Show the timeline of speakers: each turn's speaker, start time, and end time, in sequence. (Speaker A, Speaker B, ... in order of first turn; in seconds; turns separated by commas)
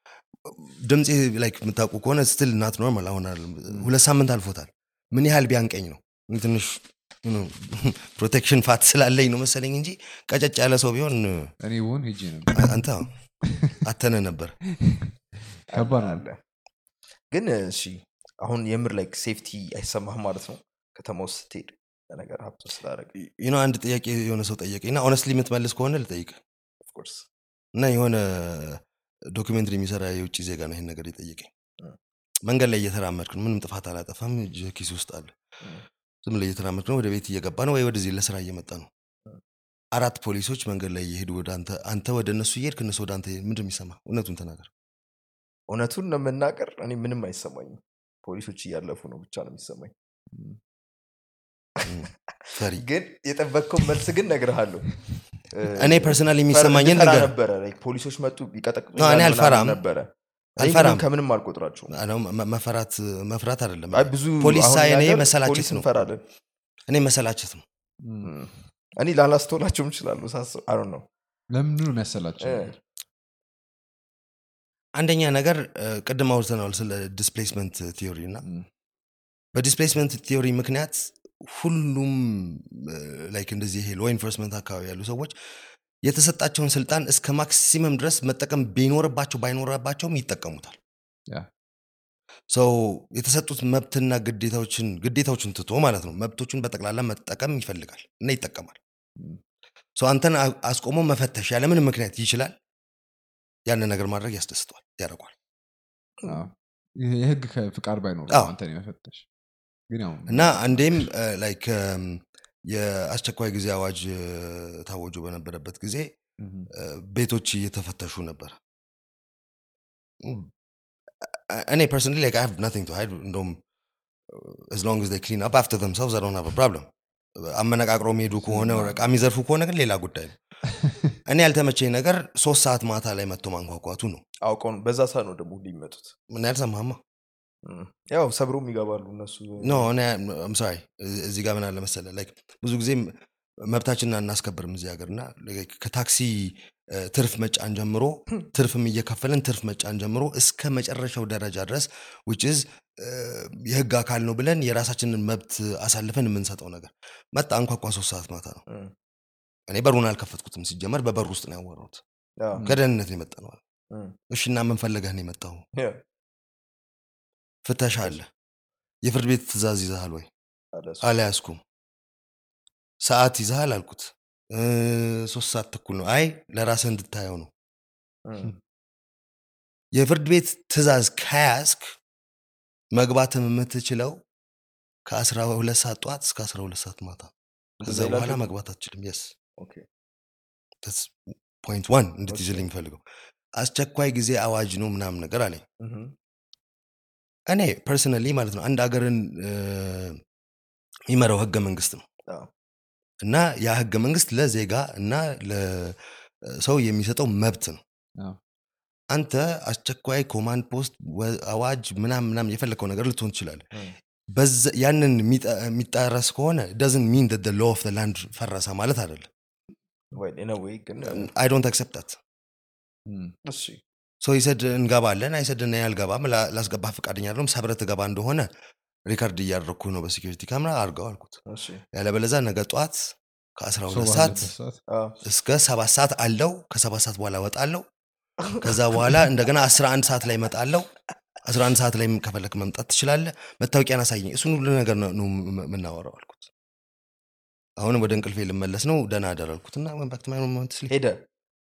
Speaker A: 0.5-11.5, Speaker B: 11.6-12.8, Speaker A: 12.5-13.1, Speaker A: 13.7-14.6, Speaker C: 15.7-16.4, Speaker B: 15.7-16.2, Speaker C: 17.3-23.1, Speaker A: 23.2-26.4, Speaker C: 26.8-27.3, Speaker A: 27.8-31.5, Speaker A: 32.5-35.3, Speaker A: 36.2-38.9, Speaker A: 39.9-44.7, Speaker C: 45.7-49.9, Speaker B: 50.3-50.6, Speaker A: 51.9-52.8, Speaker C: 52.5-61.9, Speaker A: 55.8-57.3, Speaker A: 59.0-59.8, Speaker A: 60.6-61.0, Speaker A: 61.9-66.1, Speaker C: 63.9-66.2, Speaker A: 66.9-67.6, Speaker B: 68.0-68.3, Speaker C: 68.2-71.0, Speaker B: 71.5-72.7, Speaker C: 72.4-72.8, Speaker A: 75.0-78.4, Speaker A: 79.5-85.3, Speaker A: 86.0-90.8, Speaker A: 92.5-98.8, Speaker A: 100.0-102.5, Speaker A: 103.7-105.3, Speaker B: 106.2-109.3, Speaker A: 108.3-108.5, Speaker B: 109.9-111.0, Speaker A: 110.3-116.2, Speaker B: 116.4-116.7, Speaker A: 116.7-118.6, Speaker A: 120.2-120.5, Speaker A: 121.2-123.6, Speaker A: 124.3-130.4, Speaker B: 128.4-129.0, Speaker A: 131.2-134.2, Speaker C: 134.4-136.2, Speaker A: 136.3-137.0, Speaker C: 137.6-139.9, Speaker A: 139.6-158.6, Speaker C: 158.7-158.9, Speaker A: 159.7-162.0, Speaker C: 162.4-162.7, Speaker A: 162.6-163.6, Speaker C: 163.9-164.2, Speaker A: 164.3-165.7, Speaker A: 167.7-168.3, Speaker A: 169.0-170.3, Speaker C: 170.7-171.1, Speaker A: 171.0-171.6, Speaker A: 173.0-177.5, Speaker C: 178.2-178.5, Speaker A: 179.9-182.0, Speaker A: 182.9-184.2, Speaker A: 185.1-187.3, Speaker C: 187.8-188.4, Speaker A: 187.8-189.3, Speaker C: 189.6-189.8, Speaker A: 190.8-193.0, Speaker C: 192.3-192.7, Speaker A: 193.6-195.6, Speaker C: 195.8-196.1, Speaker A: 197.5-200.2, Speaker A: 201.1-202.0, Speaker A: 203.2-207.8, Speaker A: 209.1-213.7, Speaker A: 214.3-219.3, Speaker C: 220.1-221.3, Speaker A: 221.0-222.2, Speaker B: 223.1-223.3, Speaker C: 223.4-223.8, Speaker A: 224.2-228.5, Speaker A: 229.1-231.4, Speaker C: 231.5-231.8, Speaker A: 231.9-234.5, Speaker B: 233.9-234.8, Speaker C: 234.9-235.2, Speaker A: 235.2-237.9, Speaker A: 238.6-240.9, Speaker A: 241.4-246.5, Speaker A: 247.8-250.9, Speaker C: 250.9-251.2